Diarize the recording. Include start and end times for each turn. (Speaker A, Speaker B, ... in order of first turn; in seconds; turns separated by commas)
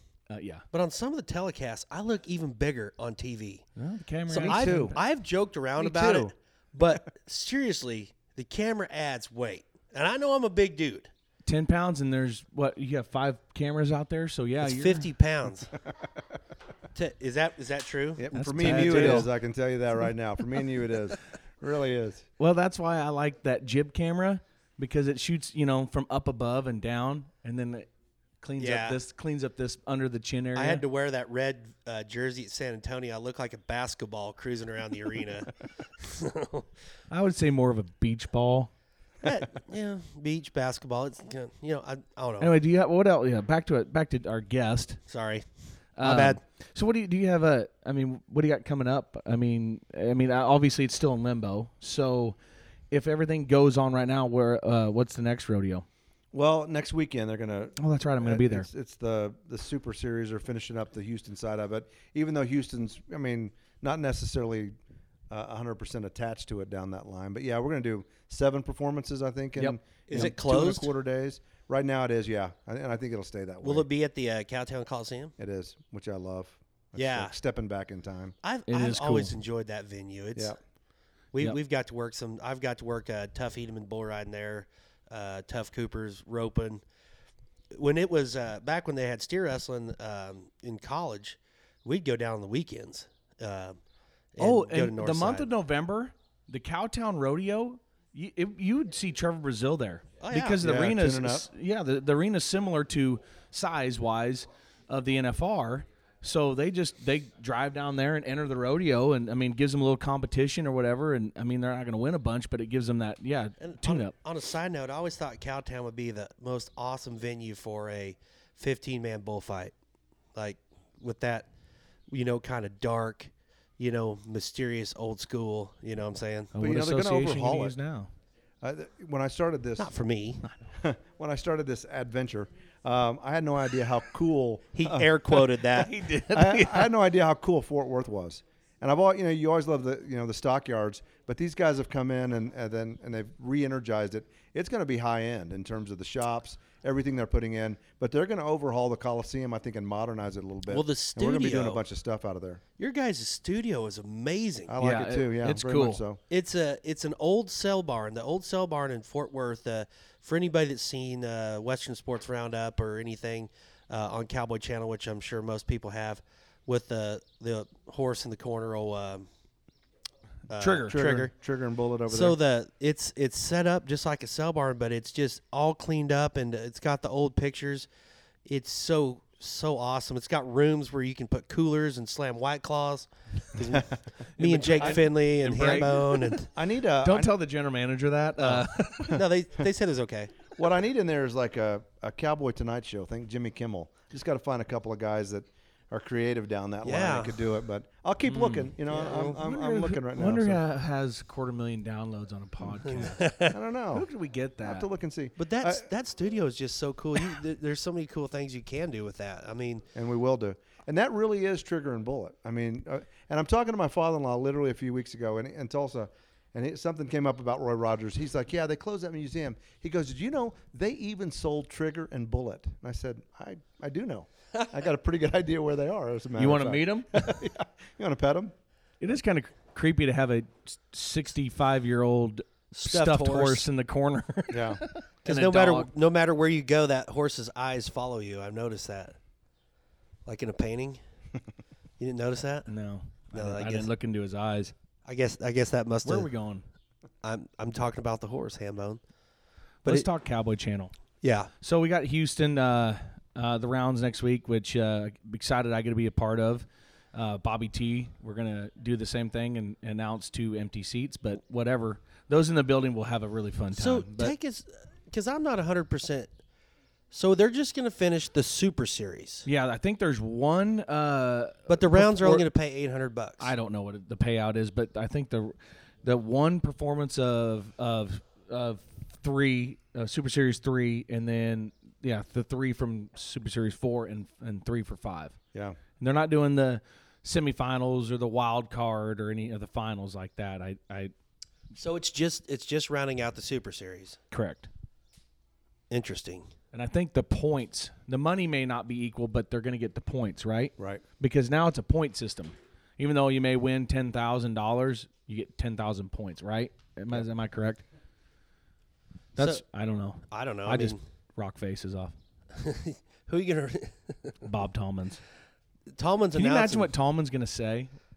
Speaker A: 0.3-0.6, Speaker B: 0.7-3.6, Speaker A: 3.8-5.0, Speaker B: 4.3-11.1, Speaker C: 4.4-4.9, Speaker C: 5.8-6.3, Speaker A: 11.4-15.1, Speaker B: 14.6-15.7, Speaker B: 16.9-19.2, Speaker C: 18.2-22.2, Speaker A: 18.3-19.3, Speaker A: 22.4-27.9, Speaker A: 28.4-30.8, Speaker B: 28.6-29.0, Speaker B: 30.6-36.6, Speaker A: 37.1-38.7, Speaker B: 39.2-42.5, Speaker A: 42.4-45.0, Speaker B: 45.1-45.5, Speaker A: 46.0-52.4, Speaker B: 46.0-46.4, Speaker A: 52.9-55.9, Speaker C: 56.3-64.7, Speaker A: 57.8-58.7, Speaker C: 65.3-73.9, Speaker A: 69.6-70.3, Speaker B: 70.1-70.9, Speaker B: 73.6-75.3, Speaker C: 75.4-78.3, Speaker B: 77.0-77.3, Speaker B: 78.4-80.5, Speaker A: 78.7-79.3, Speaker B: 81.3-86.8, Speaker B: 87.7-93.8, Speaker B: 94.3-95.5, Speaker A: 94.4-114.1, Speaker B: 100.2-100.6, Speaker C: 100.6-101.5, Speaker B: 113.6-119.7, Speaker B: 120.3-121.5, Speaker B: 122.1-126.5, Speaker A: 126.5-128.1, Speaker C: 126.6-127.8, Speaker C: 128.6-129.9, Speaker B: 129.8-130.4, Speaker C: 130.7-135.4, Speaker B: 134.7-136.0, Speaker A: 135.7-136.9, Speaker C: 136.3-152.6, Speaker B: 150.7-151.8, Speaker B: 152.8-154.7, Speaker C: 154.7-156.2, Speaker A: 154.8-156.0, Speaker B: 156.3-169.3, Speaker B: 170.5-171.3, Speaker A: 170.6-171.3, Speaker C: 170.9-172.4, Speaker B: 172.1-177.9, Speaker B: 178.4-186.5, Speaker A: 184.4-186.4, Speaker C: 185.6-187.3, Speaker A: 187.0-189.2, Speaker B: 189.1-190.5, Speaker C: 190.6-200.6, Speaker B: 196.8-197.4, Speaker A: 198.3-203.3, Speaker B: 202.8-203.6, Speaker C: 203.5-204.1, Speaker A: 203.9-204.9, Speaker C: 204.6-205.8, Speaker B: 205.4-209.8, Speaker C: 209.9-228.5, Speaker A: 226.4-227.2, Speaker A: 229.0-235.9, Speaker B: 232.7-233.7, Speaker C: 234.5-234.8, Speaker B: 235.2-239.2, Speaker B: 240.2-241.0, Speaker B: 242.0-242.7, Speaker A: 242.7-244.7, Speaker B: 243.3-243.9, Speaker B: 245.1-246.3, Speaker A: 246.0-246.6, Speaker B: 247.2-249.0, Speaker A: 249.8-250.9, Speaker B: 251.2-251.5, Speaker A: 251.6-264.3, Speaker B: 263.7-266.3, Speaker B: 267.1-269.4, Speaker A: 269.4-272.4, Speaker B: 271.7-273.5, Speaker A: 273.4-285.4, Speaker A: 286.0-291.1, Speaker B: 291.8-294.2, Speaker A: 294.3-294.7, Speaker B: 295.9-296.5, Speaker A: 296.7-307.8, Speaker C: 300.8-301.0, Speaker A: 309.4-312.1, Speaker B: 309.4-309.6, Speaker B: 310.3-311.0, Speaker B: 312.5-314.3, Speaker A: 314.4-315.2, Speaker B: 315.9-316.9, Speaker A: 316.3-317.9